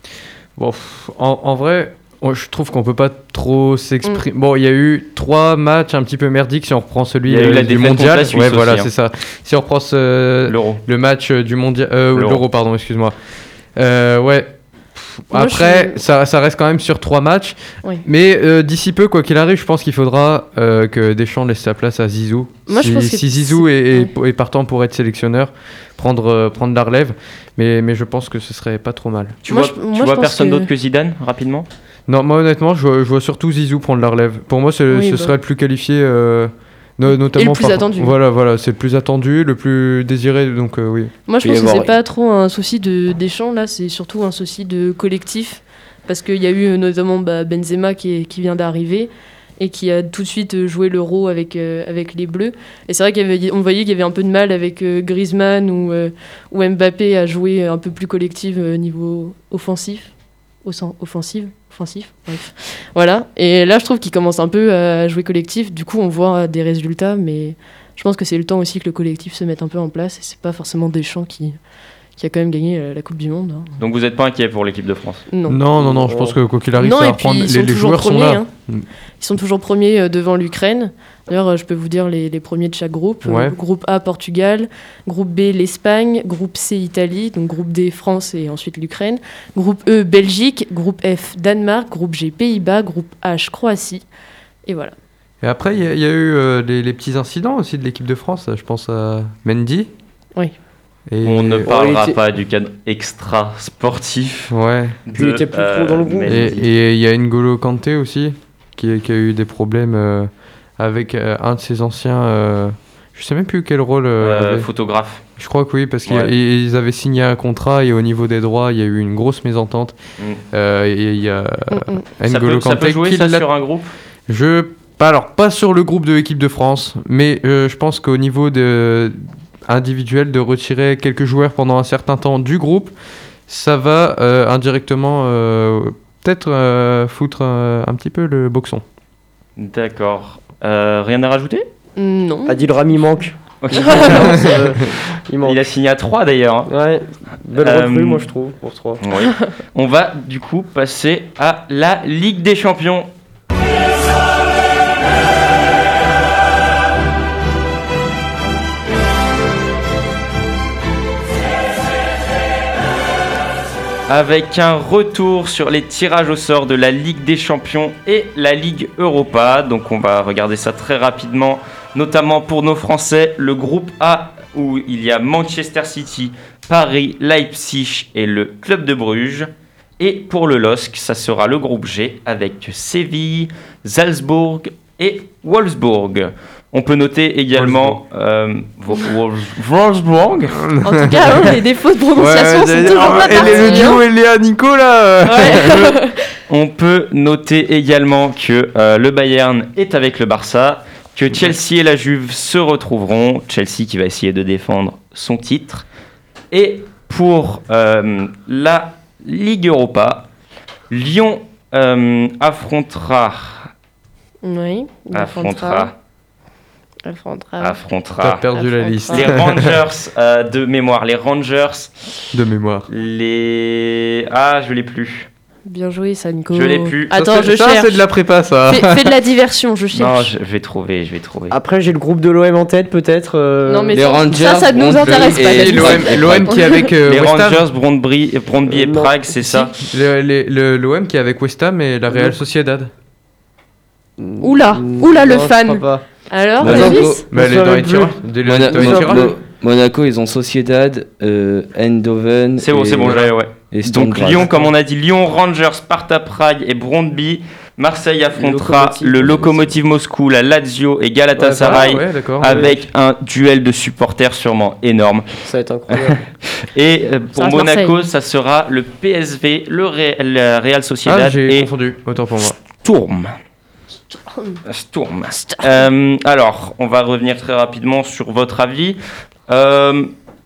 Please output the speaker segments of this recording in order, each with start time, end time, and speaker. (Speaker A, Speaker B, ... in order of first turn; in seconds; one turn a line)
Speaker A: 0.6-13.2
Speaker B: 7.3-8.9
Speaker B: 10.5-10.8
Speaker B: 12.1-12.4
Speaker A: 13.8-29.4
Speaker C: 15.3-16.0
Speaker C: 22.7-24.1
Speaker B: 29.4-31.7
Speaker C: 29.5-30.7
Speaker A: 32.1-41.1
Speaker C: 34.9-35.3
Speaker C: 37.1-38.1
Speaker C: 41.3-60.1
Speaker D: 41.4-41.9
Speaker C: 60.6-71.6
Speaker C: 72.2-73.7
Speaker B: 73.8-75.3
Speaker C: 75.3-75.6
Speaker A: 75.5-78.9
Speaker E: 75.8-76.4
Speaker C: 76.8-78.5
Speaker C: 79.2-94.0
Speaker A: 83.2-83.5
Speaker C: 94.7-94.9
Speaker A: 95.4-99.9
Speaker A: 101.1-101.7
Speaker B: 101.2-104.5
Speaker E: 101.7-102.2
Speaker A: 104.5-105.0
Speaker B: 105.1-106.6
Speaker E: 105.1-106.7
Speaker A: 106.3-114.7
Speaker B: 114.2-115.2
Speaker A: 115.4-120.0
Speaker B: 116.1-116.3
Speaker A: 120.5-123.5
Speaker C: 121.7-122.0
Speaker B: 122.3-123.9
Speaker A: 124.3-132.9
Speaker A: 133.5-138.8
Speaker B: 139.6-141.7
Speaker C: 142.0-142.7
Speaker E: 142.5-145.6
Speaker B: 143.6-144.6
Speaker C: 143.8-144.4
Speaker B: 145.4-146.7
Speaker E: 146.7-149.0
Speaker B: 147.6-148.2
Speaker B: 149.0-153.1
Speaker B: 164.1-190.6
Speaker A: 187.5-188.0
Speaker A: 190.5-191.5
Speaker C: 190.8-194.0
Speaker A: 192.2-195.8
Speaker C: 195.2-196.2
Speaker B: 196.5-205.8
Speaker B: 206.5-210.3
Speaker B: 210.9-213.7
Speaker C: 214.4-215.9
Speaker B: 215.1-215.9
Speaker C: 217.1-217.8
Speaker B: 217.6-218.4
Speaker A: 218.2-219.8
Speaker C: 218.5-219.3
Speaker B: 219.1-222.1
Speaker A: 222.3-222.9
Speaker B: 222.9-225.3
Speaker C: 225.7-228.0
Speaker B: 226.5-227.1
Speaker A: 227.1-229.2
Speaker C: 228.7-230.3
Speaker B: 229.9-231.6
Speaker E: 231.5-234.0
Speaker C: 233.7-236.9
Speaker D: 233.9-236.7
Speaker A: 235.1-237.6
Speaker B: 237.1-239.8
Speaker E: 238.7-239.7
Speaker A: 239.8-242.9
Speaker E: 242.1-242.4
Speaker E: 244.2-246.1
Speaker C: 244.4-247.2
Speaker D: 246.6-247.3
Speaker E: 246.6-249.3
Speaker A: 247.3-249.4
Speaker D: 248.4-254.6
Speaker B: 252.6-265.3
Speaker A: 254.4-254.7
Speaker E: 258.3-259.7
Speaker E: 261.4-262.8
Speaker A: 261.6-262.7
Speaker E: 265.5-266.3
Speaker B: 265.9-271.7
Speaker C: 267.4-268.0
Speaker A: 271.1-272.6
Speaker B: 272.8-273.3
Speaker C: 274.3-274.6
Speaker B: 274.7-280.1